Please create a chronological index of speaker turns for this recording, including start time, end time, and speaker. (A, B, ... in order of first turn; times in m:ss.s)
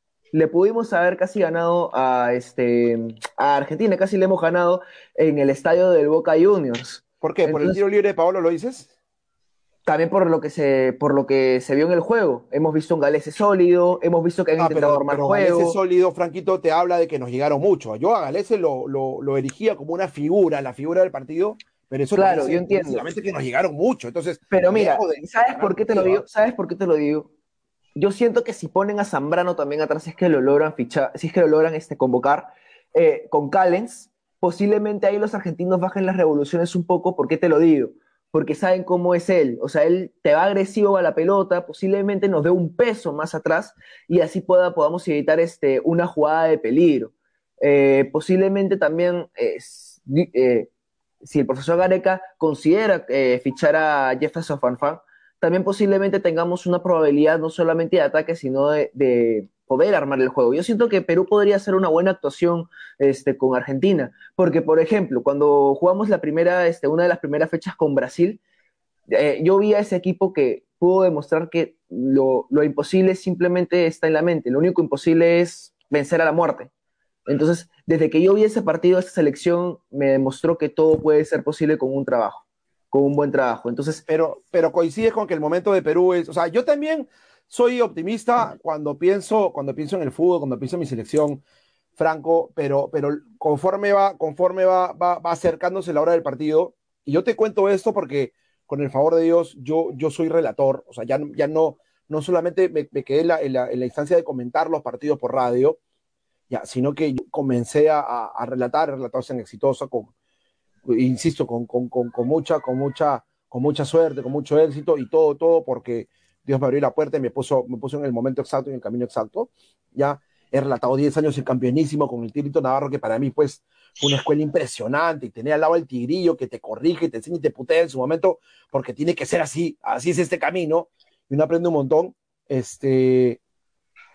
0:00.3-0:07.8 A
0:07.2-0:08.9 B
0:09.9-0:15.8 A
0:14.6-0:26.2 B
0:22.1-0:23.1 A
0:24.5-0:27.3 A
0:28.0-0:50.7 A
0:51.2-1:08.4 A
1:09.1-1:16.7 A
1:17.3-1:24.0 A
1:24.1-1:31.4 B
1:32.0-1:45.8 B
1:46.5-1:50.1 B
1:50.9-2:13.4 B